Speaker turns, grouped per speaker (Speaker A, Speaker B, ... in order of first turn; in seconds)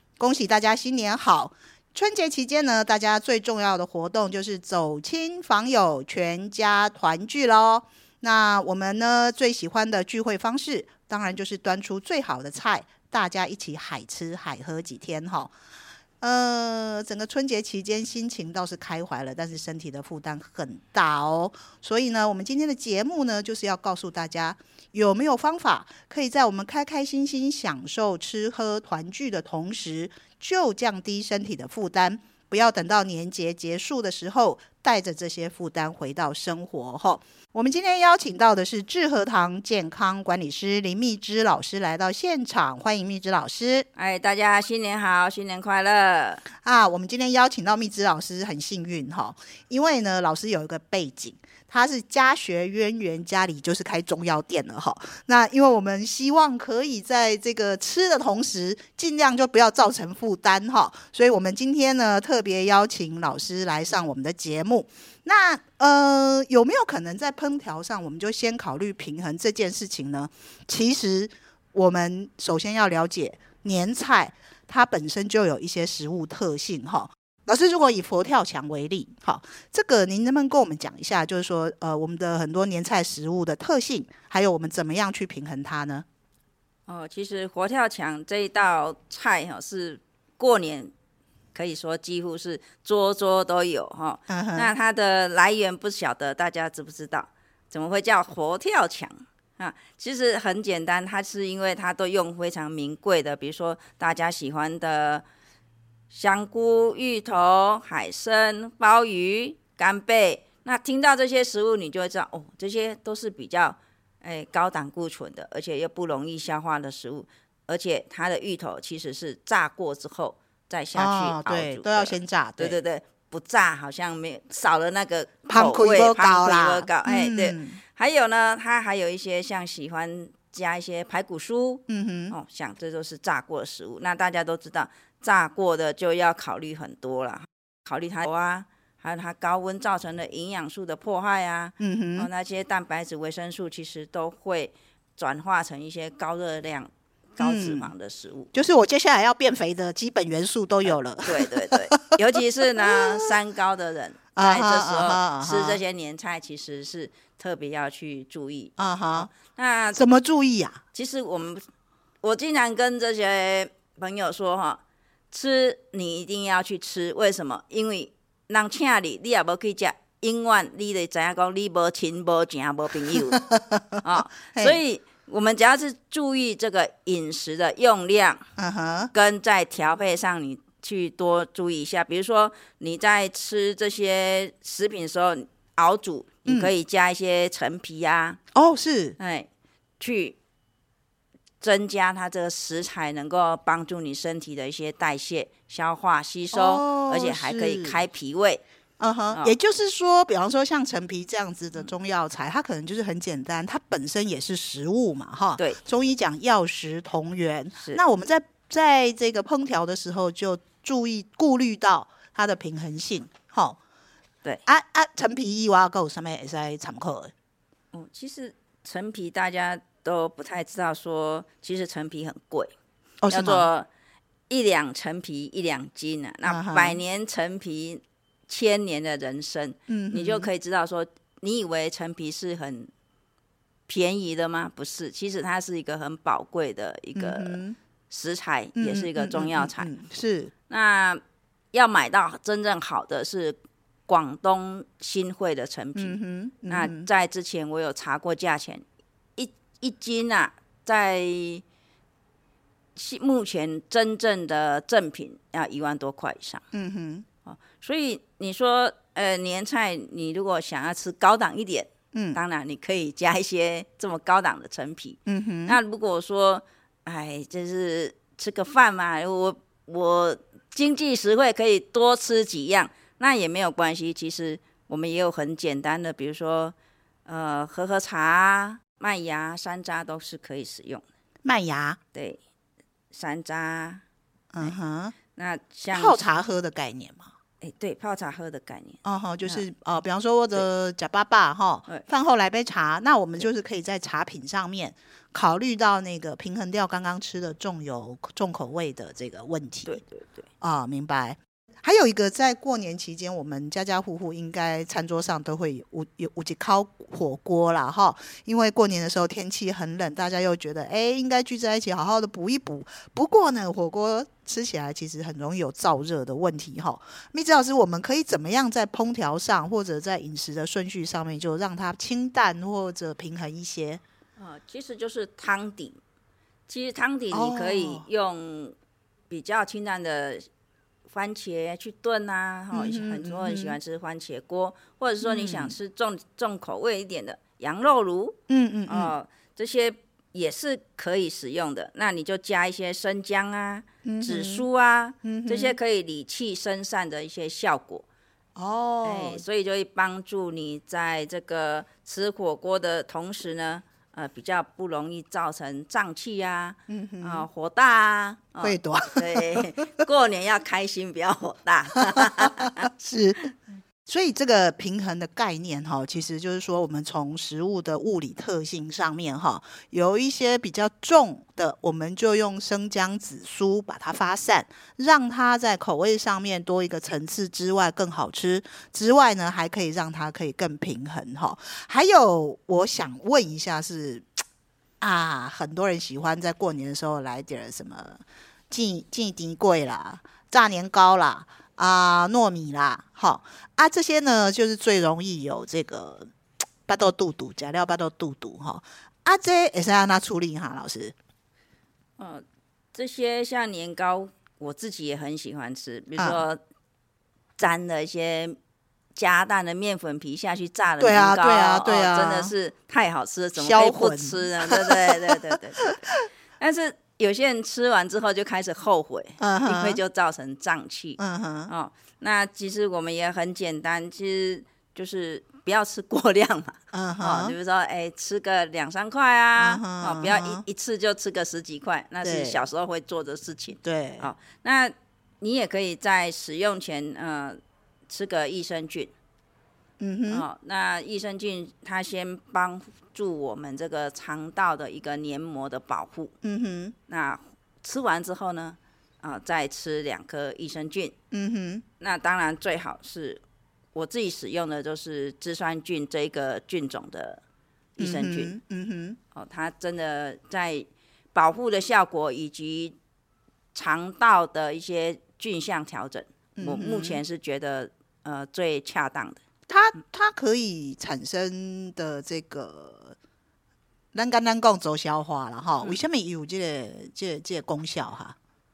Speaker A: 0.2-15.5, 16.2-43.9, 46.5-86.0, 94.3-94.7, 120.9-122.8, 125.5-127.8, 131.9-132.3, 141.8-142.3, 147.4-147.9, 148.5-152.2, 152.8-153.3, 154.3-155.8, 158.8-159.3, 159.9-160.8, 173.1-174.8, 178.6-179.1, 186.4-186.7, 188.5-189.2, 196.5-198.0, 199.0-213.8, 214.7-217.3, 223.2-223.7, 226.5-227.0, 229.9-230.5, 237.1-237.8, 238.8-240.5, 245.9-247.1, 256.7-257.2, 262.1-262.4, 265.3-265.8, 281.4-282.0, 284.5-285.1, 285.9-287.3, 289.0-300.0, 300.6-324.0, 327.3-328.0, 332.7-333.8, 335.2-335.7, 338.5-339.1, 344.0-344.6, 345.2-345.8, 348.6-349.4, 356.9-357.4, 358.6-359.7, 362.1-363.4, 364.1-384.3, 385.0-396.3, 396.9-401.1, 406.2-406.4, 411.0-412.5, 413.6-416.2, 419.4-420.0, 421.2-421.7, 426.9-427.5, 429.6-430.6, 432.2-432.6, 433.8-434.3, 440.0-440.4, 446.4-446.9, 451.3-451.8, 458.0-459.2, 466.6-467.2, 469.7-473.1, 474.1-478.4
Speaker B: 44.0-46.4, 86.9-90.9, 91.5-105.2, 106.1-148.5, 150.9-160.0, 160.9-161.6, 162.2-164.8, 165.3-173.4, 174.0-178.4, 179.1-188.4, 189.2-189.5, 190.0-190.4, 191.6-198.6, 217.9-222.7, 223.3-223.9, 224.5-232.9, 233.9-239.9, 240.7-241.2, 241.7-243.6, 244.1-248.8, 249.3-251.6, 252.9-256.6, 257.5-276.7, 277.2-281.0, 283.1-284.0, 285.3-286.3, 287.6-289.6, 299.9-300.5, 324.4-326.0, 326.7-328.8, 329.3-330.4, 331.1-348.0, 349.0-362.9, 402.2-406.6, 407.6-408.6, 409.1-416.0, 416.6-439.1, 440.3-446.3, 447.1-451.1, 452.0-453.4, 453.9-457.4, 458.0-458.5, 459.3-462.9, 463.7-469.4